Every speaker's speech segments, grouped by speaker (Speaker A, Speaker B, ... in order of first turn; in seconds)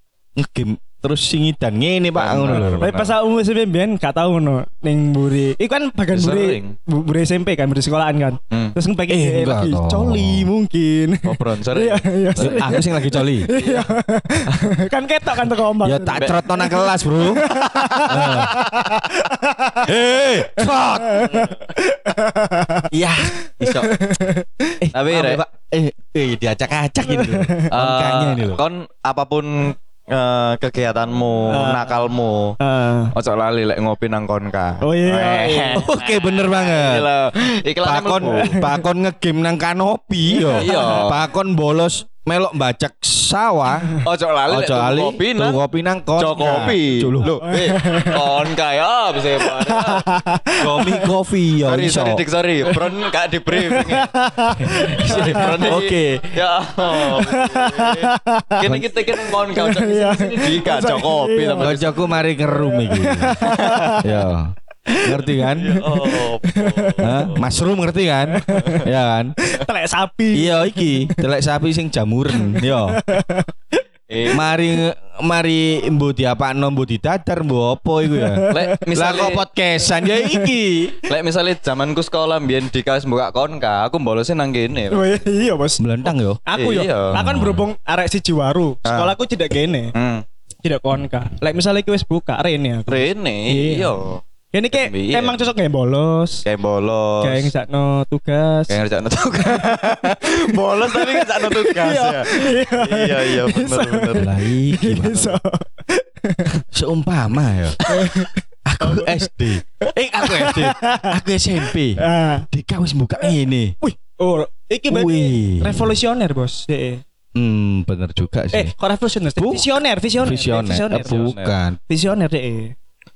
Speaker A: 0.3-2.9, 9.1-10.5, 12.4-13.5, 15.8-18.6, 19.8-21.4, 22.9-24.0, 24.8-28.6, 35.7-37.1, 37.8-44.0, 44.5-47.4, 50.6-52.2, 54.6-56.4, 61.6-65.8, 67.0-69.3, 70.3-73.0, 74.3-81.0, 85.8-86.4, 87.1-87.7, 104.2-105.4, 106.7-107.8, 108.6-113.7, 114.9-115.9, 117.3-118.7, 119.4-121.8
Speaker B: 2.1-3.1, 6.1-6.7, 8.5-8.8, 11.2-12.7, 13.6-13.9, 14.5-14.7, 24.9-25.4, 27.7-32.5, 33.1-38.6, 40.5-41.2, 44.0-45.6, 46.2-50.1, 51.6-54.1, 54.9-62.1, 63.4-64.0, 65.4-67.5, 74.1-74.5, 78.5-79.4, 81.0-85.1, 86.5-87.2, 88.8-89.1, 89.9-90.2, 92.9-94.2, 94.7-95.4, 96.4-97.5, 98.7-104.3, 120.9-121.5
Speaker C: 2.4-19.9, 20.8-22.9, 23.5-24.7, 27.1-27.7, 31.5-32.0, 32.6-33.1, 34.8-35.9, 38.2-38.8, 40.3-41.0, 47.2-48.4, 49.4-51.1, 53.6-55.8, 56.9-58.6, 59.4-64.1, 64.9-67.3, 68.3-68.8, 69.4-71.2, 72.3-73.5, 78.1-78.8, 80.0-80.5, 84.9-89.9, 90.6-93.9, 94.5-96.4, 97.2-98.8, 99.4-106.6, 107.8-109.3, 109.8-111.2, 112.0-112.5, 113.8-117.0, 118.5-121.3, 121.9-122.7